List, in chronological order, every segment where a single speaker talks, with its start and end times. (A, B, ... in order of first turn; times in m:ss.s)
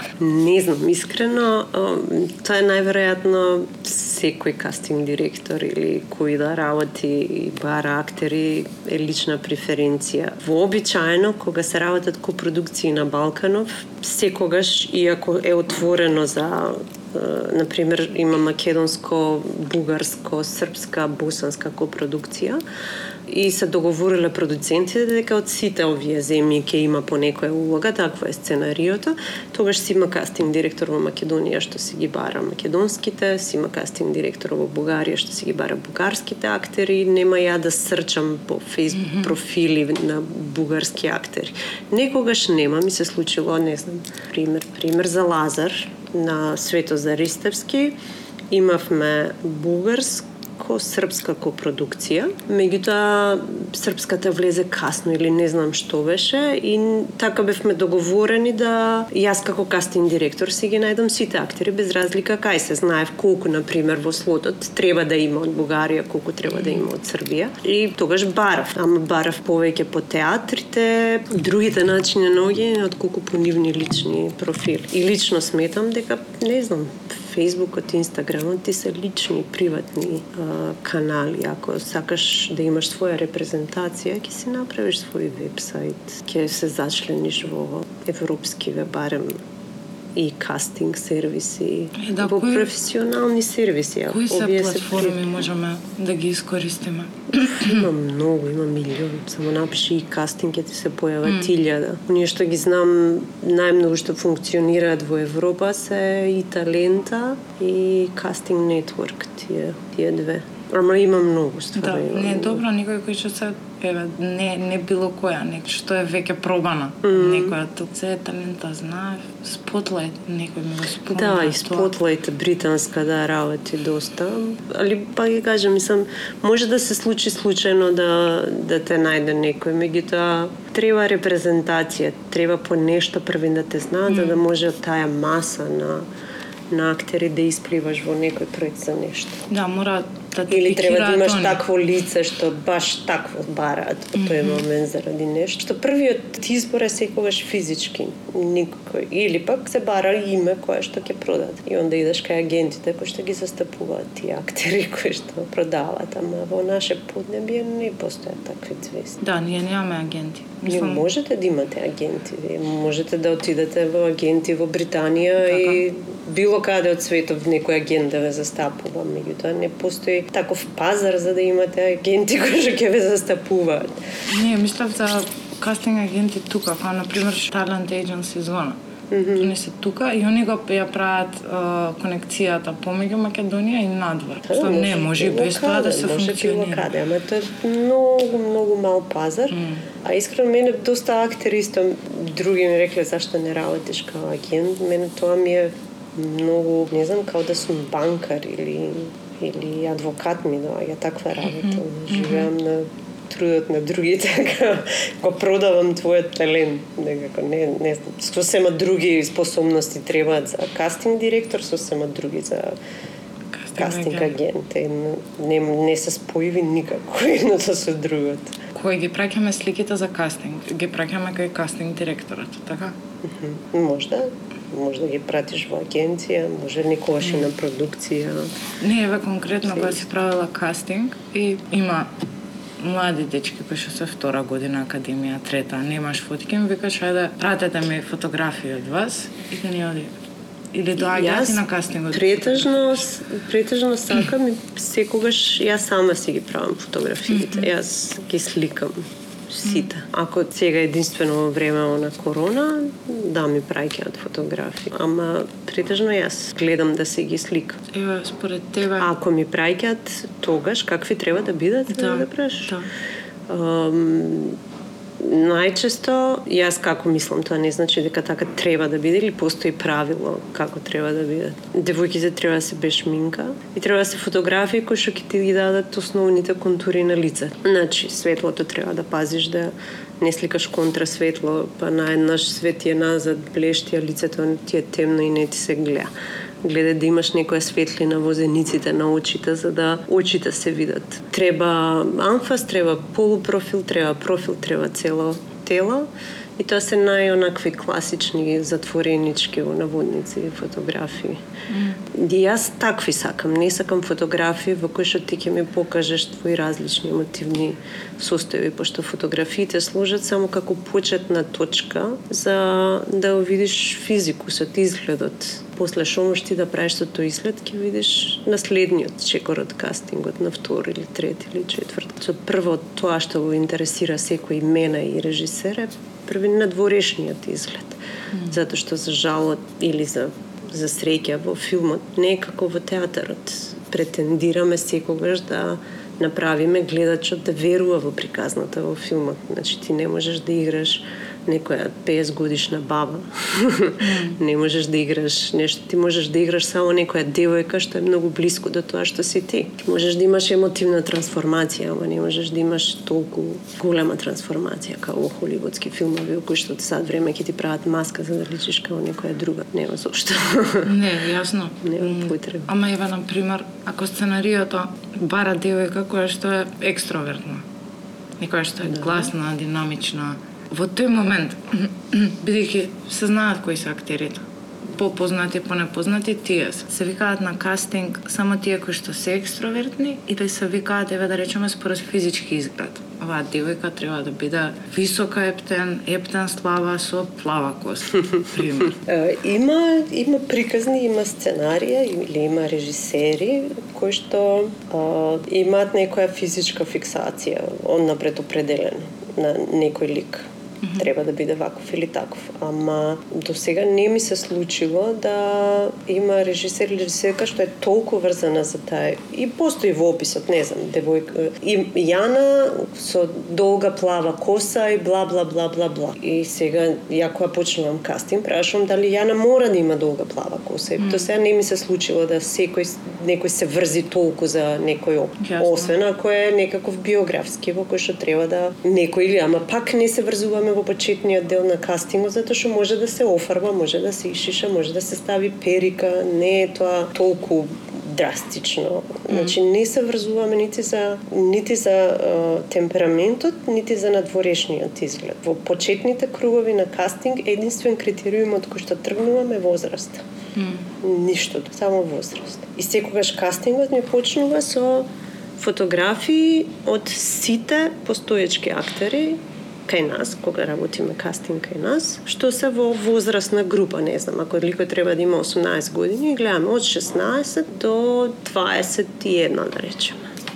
0:00.2-0:22.6 A
0:23.3-0:48.0 A
0:39.0-0:39.3 B
0:48.5-1:29.4 A
1:06.6-1:06.8 B
1:30.2-1:35.2 A
1:32.0-1:32.7 B
1:34.1-1:37.9 B
1:37.4-1:52.6 A
1:41.2-1:41.5 B
1:51.8-2:01.9 B
1:57.0-1:57.5 A
2:01.1-2:16.1 A
2:14.1-2:14.4 B
2:16.7-2:19.5 A
2:19.5-2:21.6 B
2:20.5-2:39.2 A
2:24.2-2:24.6 B
2:39.2-2:41.1 B
2:40.7-2:54.0 A
2:45.5-2:45.8 B
2:54.3-2:58.8 B
2:59.1-2:59.5 A
2:59.4-3:06.9 B
3:04.5-3:32.8 A
3:09.5-3:09.8 B
3:21.6-3:22.5 B
3:33.6-3:34.3 B
3:33.8-3:38.6 A
3:38.7-3:43.0 B
3:43.2-3:48.5 A
3:47.2-3:47.5 B
3:48.8-3:52.1 B
3:52.8-4:00.1 B
4:00.7-4:03.0 B
4:01.0-4:17.8 A
4:07.3-4:07.7 B
4:17.9-4:19.1 B
4:19.0-4:22.8 A
4:21.9-4:22.9 B
4:23.5-4:24.6 A
4:25.2-4:46.1 A
4:46.6-5:01.4 A
5:01.7-5:02.0 B
5:02.1-6:00.9 A
5:44.0-5:44.4 B
6:00.8-6:07.6 B
6:01.8-6:02.7 A
6:08.4-6:29.0 B
6:08.9-6:09.3 A
6:29.0-7:30.2 A
6:40.8-6:41.1 B
7:01.0-7:01.3 B
7:05.4-7:05.9 B
7:30.6-7:30.9 B
7:31.0-7:50.2 A